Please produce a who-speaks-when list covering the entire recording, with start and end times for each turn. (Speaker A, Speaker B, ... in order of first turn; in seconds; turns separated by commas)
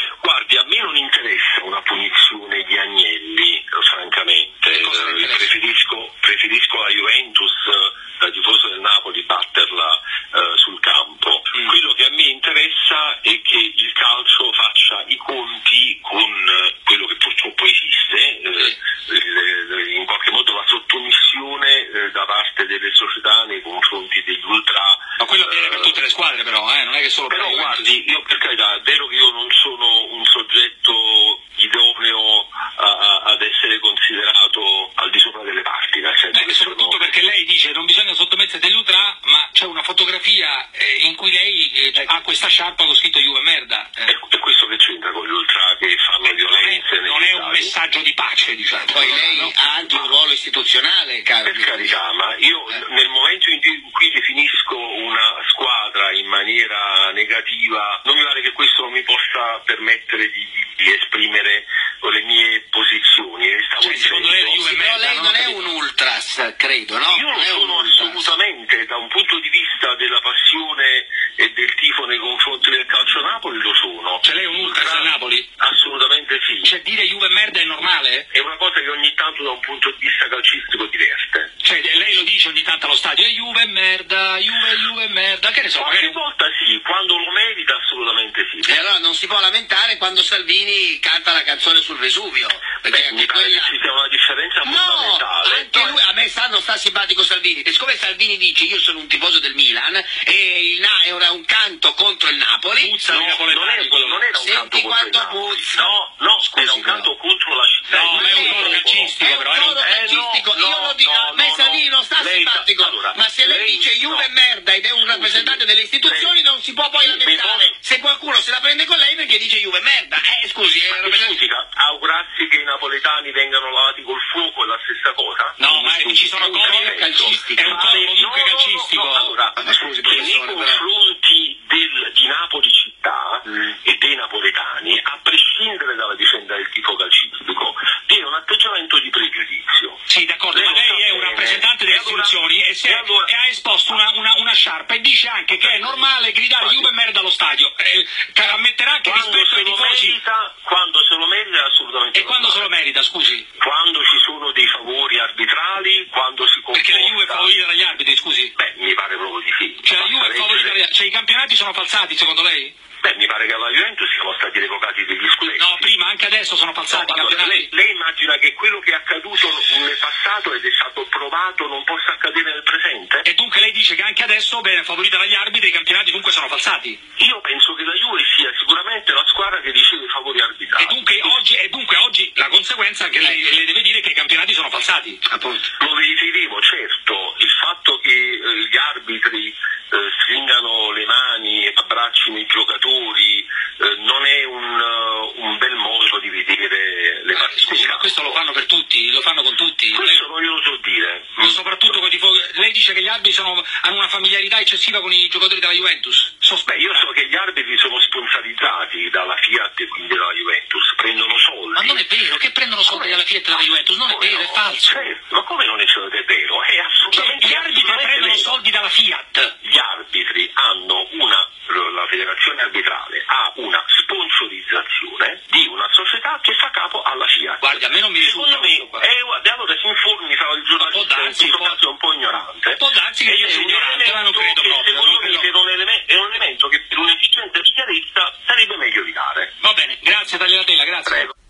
Speaker A: 0.2-26.0, Speaker B: 4.7-5.5, Speaker B: 25.2-27.9, Speaker A: 27.3-37.1, Speaker B: 36.3-44.1, Speaker A: 44.1-47.8, Speaker B: 46.3-49.6, Speaker C: 48.9-52.0, Speaker A: 51.4-64.6, Speaker B: 63.8-65.7, Speaker C: 64.6-68.3, Speaker A: 67.1-76.7, Speaker B: 74.2-75.5, Speaker B: 76.6-78.3, Speaker A: 78.3-81.5, Speaker B: 81.6-86.2, Speaker A: 85.8-88.8, Speaker C: 88.6-93.8, Speaker A: 92.8-96.0, Speaker C: 94.6-103.0, Speaker B: 102.8-104.3, Speaker A: 103.1-109.2, Speaker C: 104.3-107.1, Speaker B: 107.9-109.8, Speaker C: 108.1-121.4, Speaker A: 109.8-114.3, Speaker A: 115.0-116.3, Speaker A: 117.0-117.8, Speaker A: 120.9-125.7, Speaker B: 125.6-129.4, Speaker C: 125.7-127.9, Speaker A: 126.3-140.0, Speaker C: 129.6-130.8, Speaker B: 140.1-150.2, Speaker A: 140.5-143.3, Speaker A: 145.6-146.9, Speaker A: 148.4-152.7, Speaker B: 152.1-153.5, Speaker A: 153.6-157.5, Speaker B: 156.7-158.5, Speaker A: 158.6-160.8, Speaker B: 159.8-162.7, Speaker A: 163.0-165.9, Speaker B: 165.6-167.7, Speaker A: 166.9-173.3, Speaker B: 173.2-177.0, Speaker A: 177.2-181.4, Speaker B: 180.8-185.2, Speaker C: 183.2-183.5, Speaker C: 185.3-185.7, Speaker A: 185.8-198.4, Speaker B: 197.3-200.2, Speaker A: 199.9-202.0, Speaker B: 201.4-207.1, Speaker A: 206.7-212.1, Speaker B: 211.8-215.1, Speaker A: 212.8-218.5, Speaker B: 217.1-219.5, Speaker A: 219.6-239.5, Speaker B: 227.6-229.1, Speaker B: 230.8-231.8, Speaker B: 232.8-235.5, Speaker B: 239.6-241.3